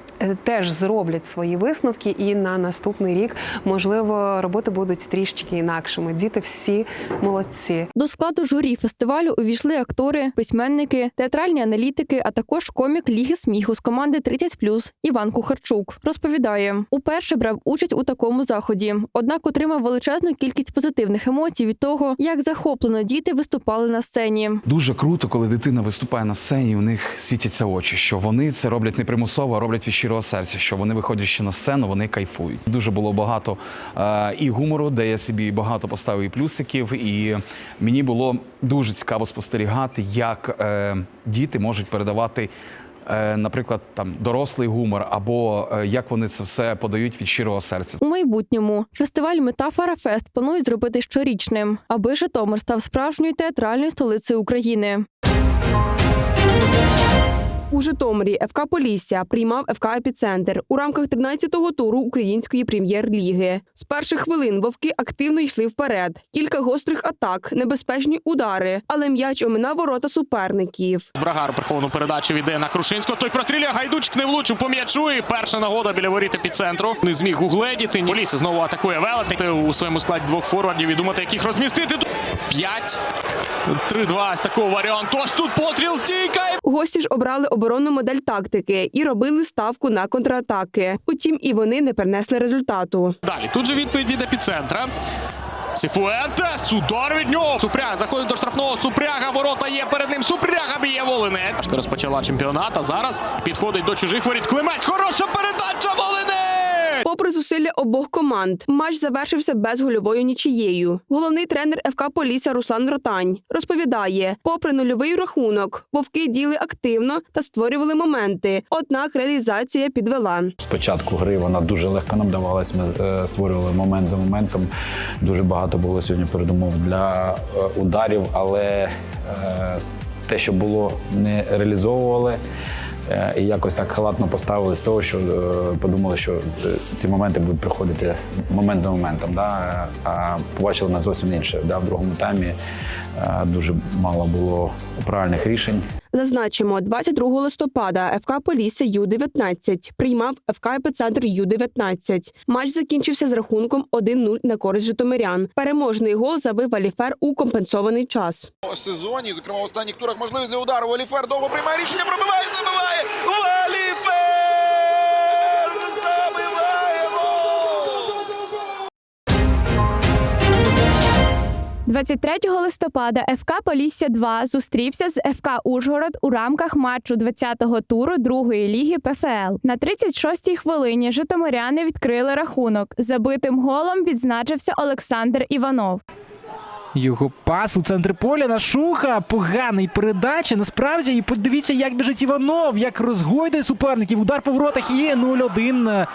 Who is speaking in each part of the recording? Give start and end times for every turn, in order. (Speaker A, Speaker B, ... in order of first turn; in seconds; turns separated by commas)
Speaker A: 0.2-7.9, Speaker B: 8.0-24.6, Speaker C: 24.7-42.5, Speaker C: 43.1-48.0, Speaker B: 48.0-55.0, Speaker D: 57.7-71.1, Speaker E: 71.2-83.0, Speaker E: 83.7-86.6, Speaker D: 86.6-93.1, Speaker E: 93.2-94.9, Speaker E: 95.8-107.0, Speaker D: 107.0-120.5, Speaker F: 120.6-132.4, Speaker F: 133.1-142.6, Speaker F: 143.2-145.8, Speaker D: 146.1-158.5, Speaker G: 158.7-165.1, Speaker G: 165.6-168.1, Speaker H: 171.8-186.0, Speaker I: 186.9-196.1